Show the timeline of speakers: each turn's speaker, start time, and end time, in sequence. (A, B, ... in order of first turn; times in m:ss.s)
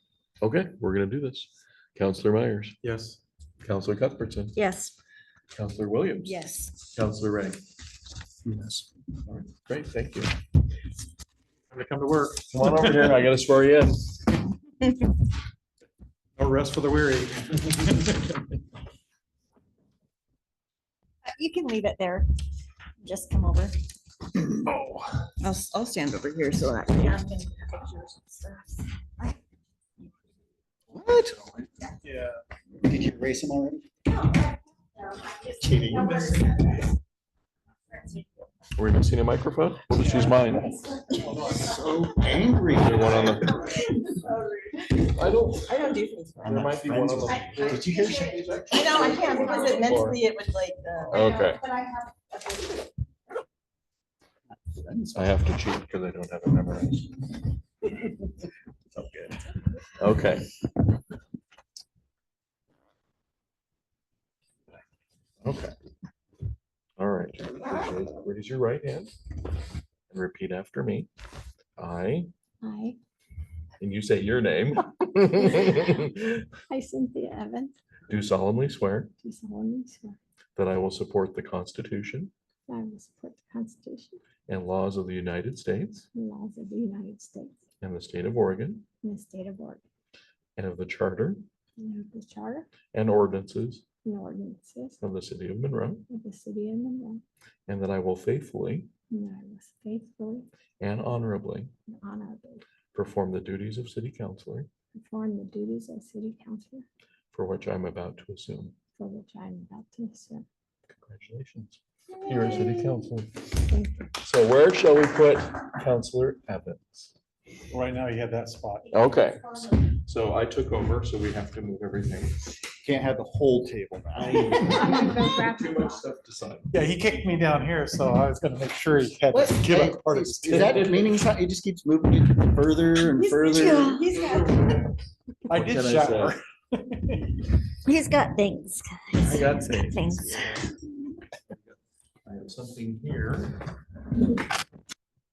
0:00.4-0:02.8 A
0:02.8-0:03.2 B
0:03.6-0:04.6 A
0:04.6-0:04.9 C
0:05.5-0:07.6 A
0:06.2-0:06.7 C
0:08.5-0:10.3 A
0:11.7-0:13.1 B
0:12.5-0:14.2 A
0:16.4-0:18.4 B
0:21.2-0:22.2 C
0:23.0-0:23.7 C
0:25.4-0:27.2 D
0:27.0-0:29.3 C
0:30.9-0:31.7 E
0:32.0-0:32.4 B
0:32.8-0:33.8 E
0:35.4-0:36.2 E
0:36.0-0:36.5 C
0:38.8-0:40.8 A
0:40.0-0:40.3 B
0:41.1-0:42.1 B
0:41.6-0:43.6 E
0:42.7-0:43.6 A
0:45.0-0:45.7 A
0:45.6-0:46.6 D
0:46.4-0:49.4 E
0:46.4-0:50.2 A
0:48.7-0:51.2 D
0:51.1-0:51.6 A
0:51.6-0:52.0 C
0:54.5-0:55.3 E
0:55.1-0:57.4 A
0:59.0-0:59.4 E
1:00.0-1:00.5 A
1:05.4-1:05.7 A
1:07.0-1:09.1 A
1:10.1-1:11.1 A
1:11.8-1:12.3 A
1:12.6-1:13.0 F
1:13.8-1:16.2 A
1:15.4-1:15.8 F
1:16.7-1:17.7 F
1:18.1-1:19.1 A
1:19.2-1:20.2 F
1:20.6-1:22.3 A
1:22.7-1:24.2 F
1:24.5-1:26.1 A
1:26.1-1:27.6 F
1:27.8-1:28.8 A
1:29.0-1:29.8 F
1:30.6-1:31.4 A
1:31.8-1:32.7 F
1:32.9-1:33.8 A
1:34.0-1:35.0 F
1:35.0-1:36.0 A
1:36.1-1:37.2 F
1:37.7-1:38.9 A
1:39.1-1:40.4 F
1:40.8-1:41.7 A
1:41.9-1:42.6 F
1:42.9-1:44.7 A
1:44.9-1:46.8 F
1:47.3-1:48.7 A
1:49.0-1:50.4 F
1:50.9-1:53.6 A
1:53.7-1:54.1 F
1:54.2-1:57.1 A
1:57.7-1:58.9 B
1:58.9-2:02.5 A
2:02.8-2:05.2 E
2:04.2-2:06.8 A
2:05.0-2:05.4 F
2:06.7-2:10.9 B
2:09.3-2:14.1 E
2:10.5-2:11.2 A
2:13.5-2:14.2 C
2:13.8-2:14.3 F
2:14.4-2:14.7 A
2:15.5-2:17.2 B
2:15.5-2:16.4 A
2:17.9-2:20.4 C
2:19.1-2:20.6 A
2:22.2-2:23.6 A